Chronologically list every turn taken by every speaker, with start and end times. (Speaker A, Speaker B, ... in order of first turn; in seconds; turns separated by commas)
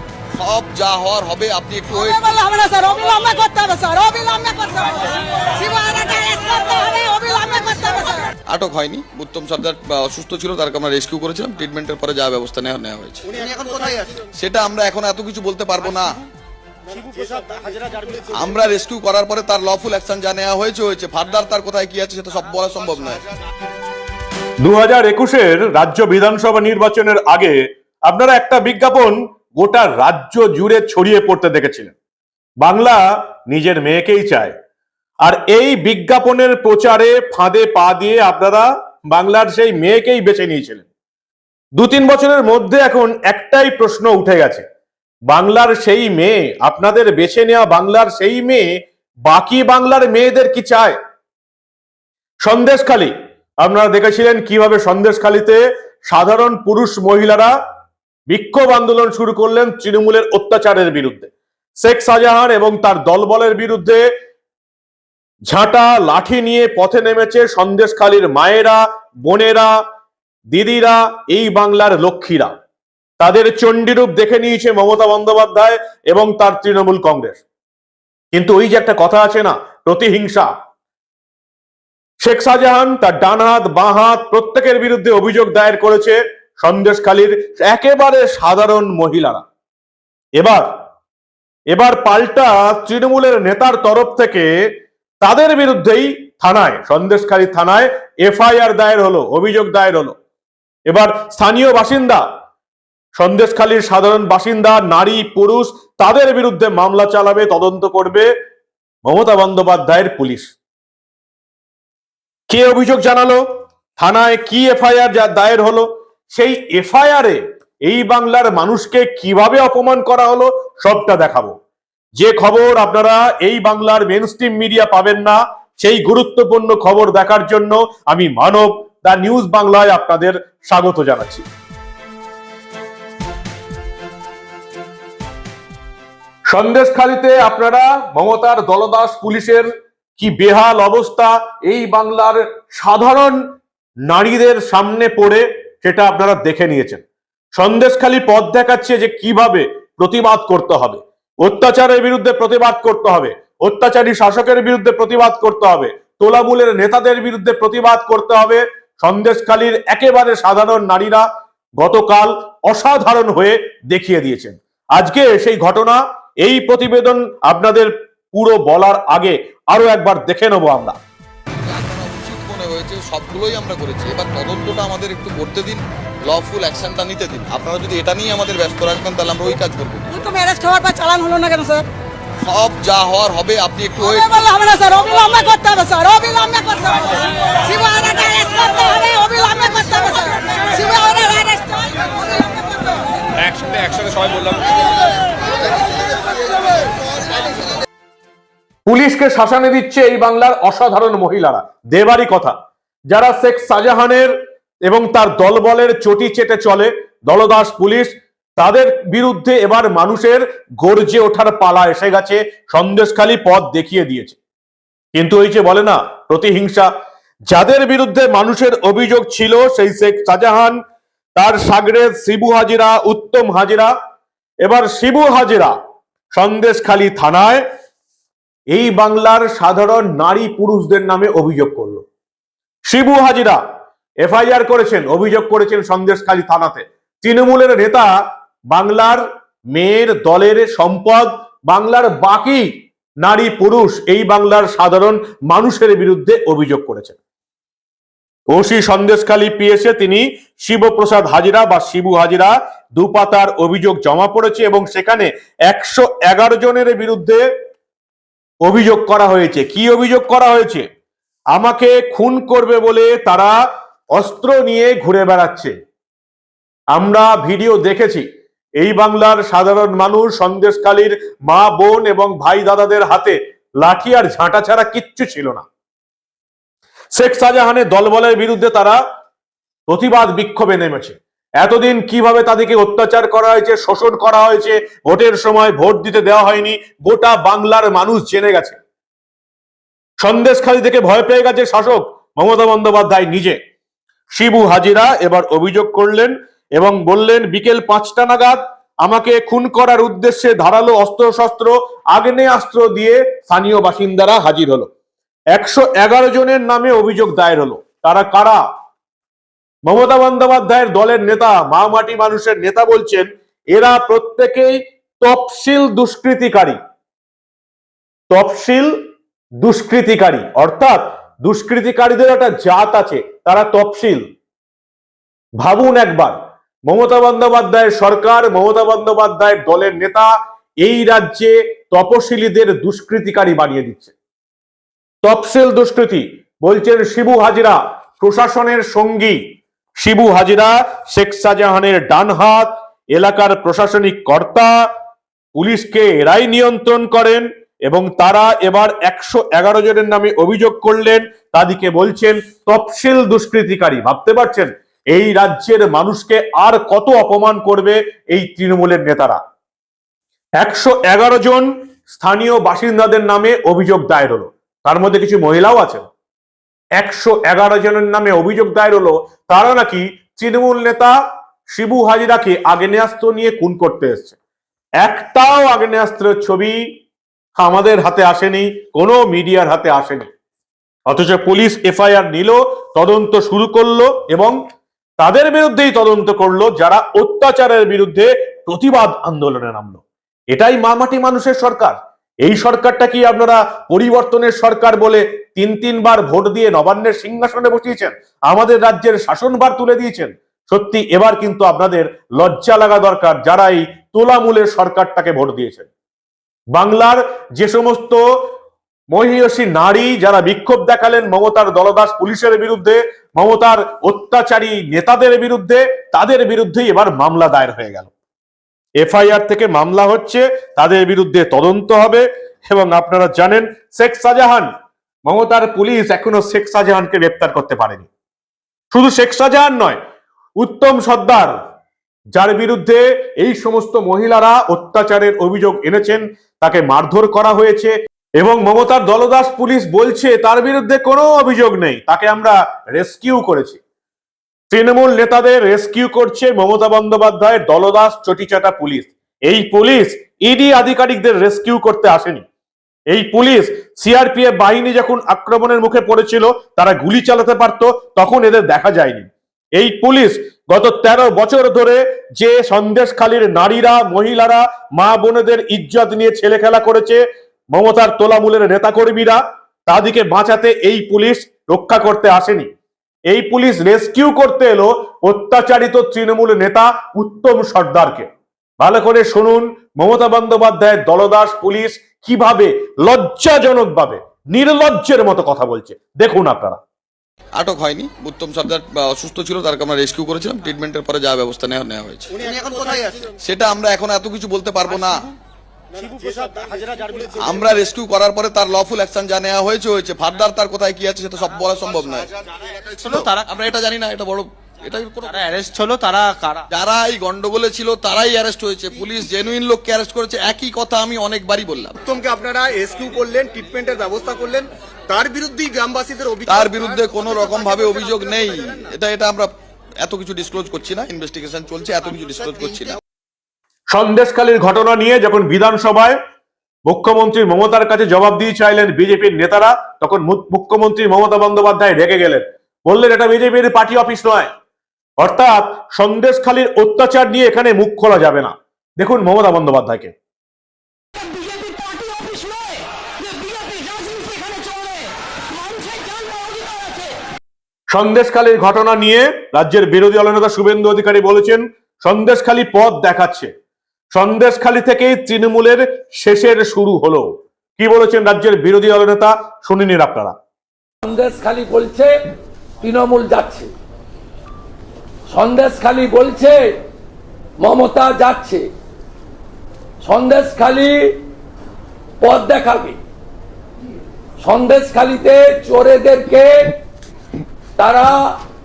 Speaker A: 0.3-2.3, Speaker B: 1.9-8.3, Speaker A: 8.4-16.2, Speaker C: 17.3-17.8, Speaker A: 18.3-23.2, Speaker D: 24.6-31.9, Speaker D: 32.6-34.5, Speaker D: 35.2-40.9, Speaker D: 41.8-44.6, Speaker D: 45.3-48.7, Speaker D: 49.2-51.0, Speaker D: 52.4-57.5, Speaker D: 58.3-61.3, Speaker D: 61.8-64.1, Speaker D: 65.5-69.7, Speaker D: 70.5-72.5, Speaker D: 73.2-77.4, Speaker D: 78.3-80.5, Speaker D: 82.2-89.4, Speaker D: 90.4-90.7, Speaker D: 91.7-94.5, Speaker D: 95.2-100.1, Speaker D: 100.9-102.2, Speaker D: 103.1-108.3, Speaker D: 109.0-110.5, Speaker D: 112.5-113.4, Speaker D: 114.0-121.5, Speaker D: 122.2-131.4, Speaker D: 136.5-143.4, Speaker D: 144.0-147.0, Speaker D: 147.5-161.2, Speaker D: 161.8-171.0, Speaker A: 171.7-180.1, Speaker B: 180.1-181.8, Speaker A: 182.4-184.4, Speaker B: 184.1-193.0, Speaker E: 193.5-194.5, Speaker D: 198.9-202.5, Speaker D: 203.1-204.3, Speaker D: 204.8-214.4, Speaker D: 215.1-216.9, Speaker D: 217.5-220.8, Speaker D: 221.3-223.9, Speaker D: 224.6-225.7, Speaker D: 226.3-227.6, Speaker D: 228.7-232.0, Speaker D: 232.8-233.6, Speaker D: 234.2-238.1, Speaker D: 238.7-242.7, Speaker D: 243.2-247.2, Speaker D: 248.5-257.4, Speaker D: 258.6-260.8, Speaker D: 261.5-263.5, Speaker D: 264.1-265.7, Speaker D: 266.9-268.2, Speaker D: 268.8-275.6, Speaker D: 277.1-279.0, Speaker D: 279.9-288.8, Speaker D: 290.2-293.6, Speaker D: 294.3-304.9, Speaker D: 305.5-308.6, Speaker D: 309.8-316.8, Speaker D: 318.3-318.9, Speaker D: 319.6-324.2, Speaker D: 325.6-326.3, Speaker D: 326.9-330.3, Speaker D: 330.8-334.1, Speaker D: 335.2-339.4, Speaker D: 340.0-344.7, Speaker D: 345.6-359.4, Speaker D: 360.6-366.1, Speaker D: 367.0-371.1, Speaker D: 371.7-374.4, Speaker D: 375.0-376.8, Speaker D: 377.6-380.3, Speaker D: 381.1-384.6, Speaker D: 385.2-405.9, Speaker D: 406.7-408.2, Speaker D: 409.1-418.1, Speaker D: 419.0-424.7, Speaker D: 425.2-428.1, Speaker D: 428.9-430.0, Speaker D: 430.6-431.6, Speaker D: 432.3-443.8, Speaker D: 444.7-452.4, Speaker D: 453.1-467.2, Speaker D: 467.7-472.7, Speaker D: 473.3-478.3, Speaker D: 478.8-486.8, Speaker A: 487.6-495.3, Speaker C: 496.1-497.2, Speaker A: 497.3-505.7, Speaker E: 503.1-503.4, Speaker E: 505.4-506.6, Speaker A: 506.7-512.0, Speaker C: 512.1-516.5, Speaker A: 516.4-523.0, Speaker D: 523.9-526.2, Speaker D: 526.9-534.5, Speaker D: 535.2-540.1, Speaker D: 547.9-553.5, Speaker D: 554.1-560.3, Speaker F: 561.0-562.2, Speaker F: 562.8-563.7, Speaker F: 565.3-566.8, Speaker F: 567.6-568.7, Speaker F: 570.0-571.2, Speaker F: 572.2-573.0, Speaker F: 574.4-576.7, Speaker F: 577.8-578.4